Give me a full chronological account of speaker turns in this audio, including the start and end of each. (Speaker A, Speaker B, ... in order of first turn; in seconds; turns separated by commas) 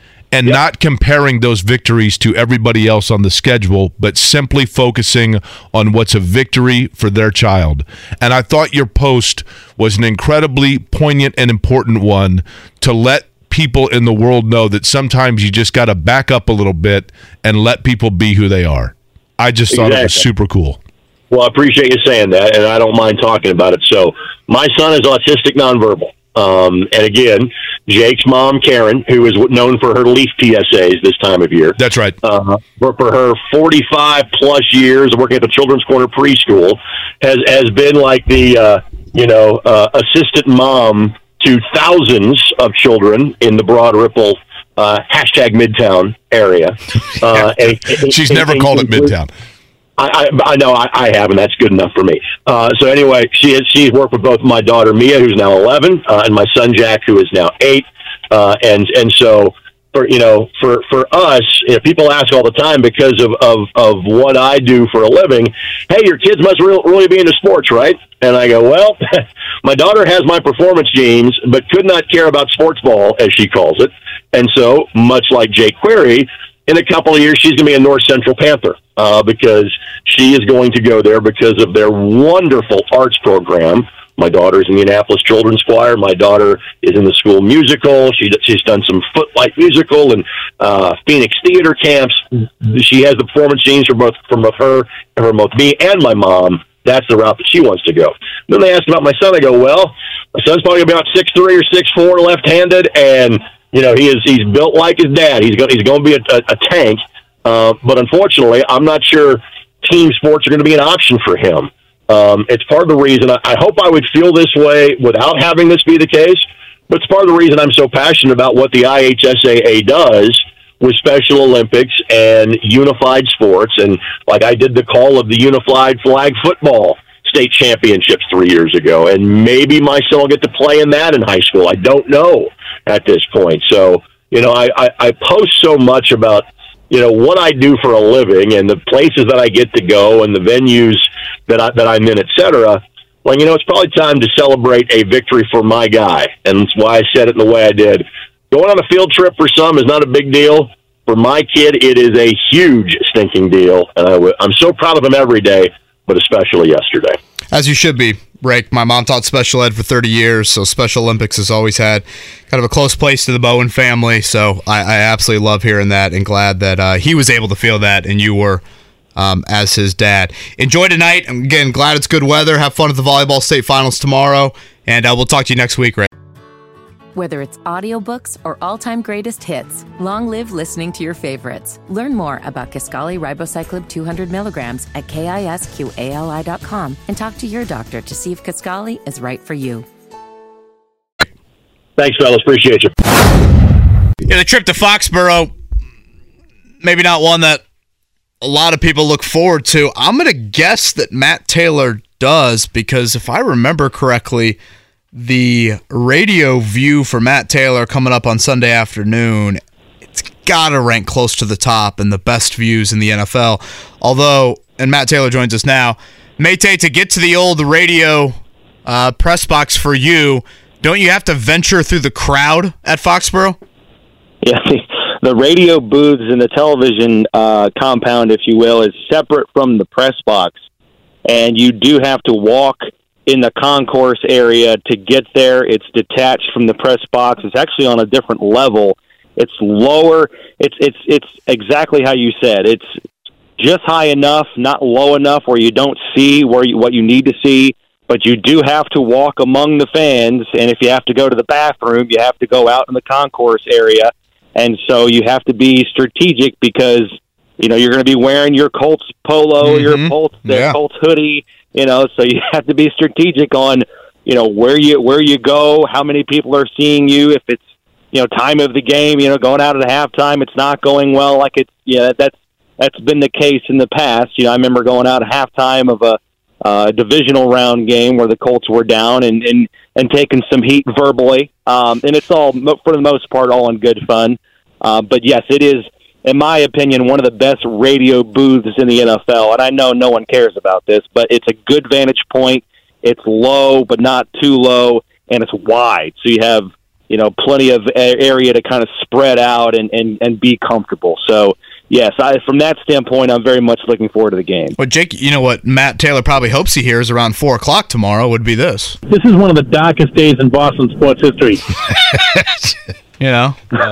Speaker A: 0.3-20.8, Speaker B: 19.7-20.2, Speaker B: 21.3-49.1, Speaker A: 31.8-32.1, Speaker A: 47.3-49.3, Speaker B: 50.0-157.2, Speaker C: 157.5-168.6, Speaker C: 169.2-176.1, Speaker D: 177.1-189.8, Speaker B: 192.0-192.9, Speaker C: 194.2-195.5, Speaker C: 196.8-197.6, Speaker C: 198.4-204.6, Speaker C: 205.1-209.6, Speaker C: 210.1-223.6, Speaker E: 224.4-230.5, Speaker E: 231.2-242.9, Speaker E: 243.6-267.6, Speaker C: 259.6-260.8, Speaker E: 268.1-304.8, Speaker C: 304.8-309.0, Speaker F: 309.1-311.7, Speaker C: 313.2-313.6